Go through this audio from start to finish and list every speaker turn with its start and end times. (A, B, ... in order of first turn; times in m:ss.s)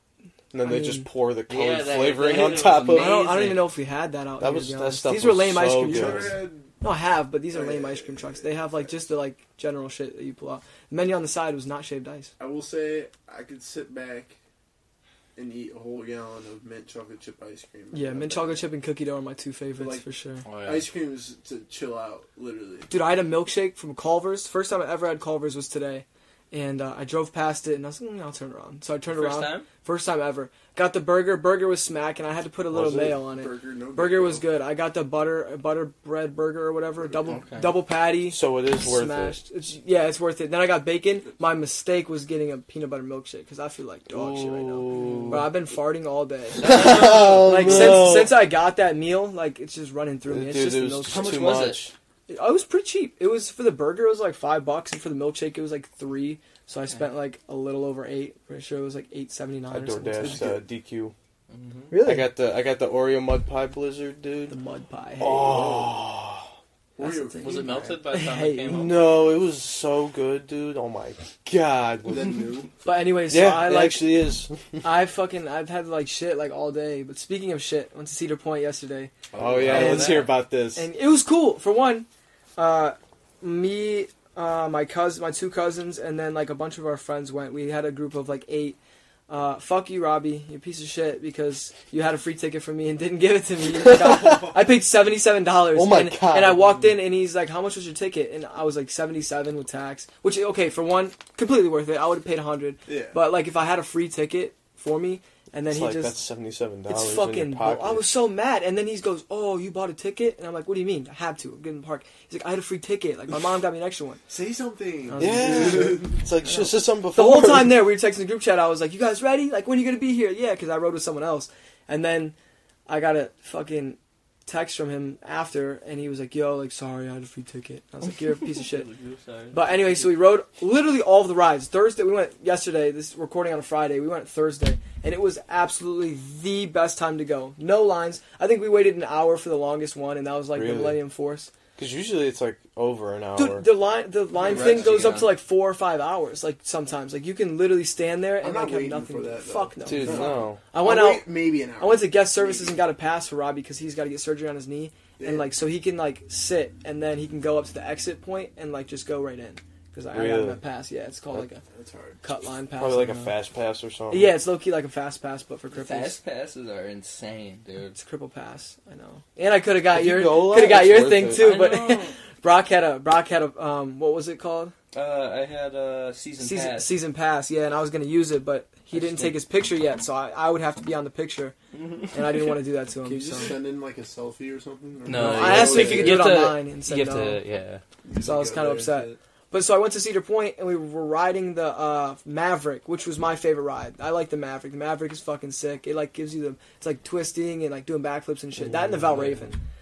0:00.5-0:03.1 A
0:00.6-0:01.1 B
0:01.5-0:03.7 C
0:02.9-0:12.3 B
0:04.4-0:06.4 A
0:05.8-0:06.7 D
0:07.5-0:08.5 D
0:12.4-0:14.4 D
0:15.4-0:18.6 D
0:17.9-0:20.4 B
0:19.8-0:20.0 D
0:20.4-0:20.9 C
0:20.6-0:22.9 D
0:22.9-0:51.5 B
0:29.1-0:29.7 C
0:32.7-0:33.2 A
0:33.3-0:34.5 D
0:37.3-0:37.8 C
0:38.3-0:39.4 A
0:44.1-0:45.5 A
0:44.9-0:45.5 C
0:46.6-0:48.0 C
0:46.6-0:48.4 A
0:50.3-0:51.9 A
0:51.1-0:51.9 C
0:52.3-1:00.5 B
0:59.7-1:01.1 A
1:00.2-1:00.6 D
1:01.5-1:01.9 C
1:01.9-1:02.3 B
1:02.0-1:04.6 A
1:04.5-1:05.9 B
1:05.2-1:06.5 A
1:05.5-1:05.8 D
1:07.0-1:08.0 D
1:07.0-1:08.9 B
1:07.4-1:09.0 C
1:08.7-1:12.5 A
1:12.1-1:12.7 D
1:12.8-1:14.2 B
1:13.3-1:14.8 A
1:14.8-1:19.1 B
1:19.3-1:20.4 C
1:19.4-1:20.9 A
1:19.7-1:28.8 B
1:29.3-1:46.2 B
1:33.8-1:34.5 A
1:35.7-1:36.8 A
1:42.9-1:43.2 D
1:45.7-1:48.1 A
1:46.9-1:54.2 B
1:54.3-1:56.2 D
1:55.1-2:02.4 B
1:55.2-1:57.9 A
2:02.9-2:08.9 B
2:08.5-2:10.2 C
2:09.5-2:21.5 B
2:20.5-2:21.0 A
2:21.8-2:23.7 A
2:23.4-2:41.6 B
2:24.4-2:25.2 D
2:24.6-2:25.3 C
2:28.4-2:32.8 D
2:29.8-2:30.6 A
2:35.2-2:35.5 D
2:40.1-2:40.6 A
2:41.7-2:42.2 D
2:42.2-2:43.4 B
2:42.8-2:44.4 A
2:44.1-2:46.2 B
2:45.7-2:48.0 C
2:48.0-2:54.7 B
2:49.9-2:51.5 A
2:51.3-2:52.1 C
2:54.9-2:56.9 C
2:56.4-3:01.6 B
3:01.7-3:02.4 C
3:02.1-3:03.5 B
3:03.0-3:06.4 D
3:05.0-3:07.8 C
3:05.1-3:07.4 B
3:08.0-3:09.2 D
3:08.2-3:19.6 B
3:18.6-3:19.3 A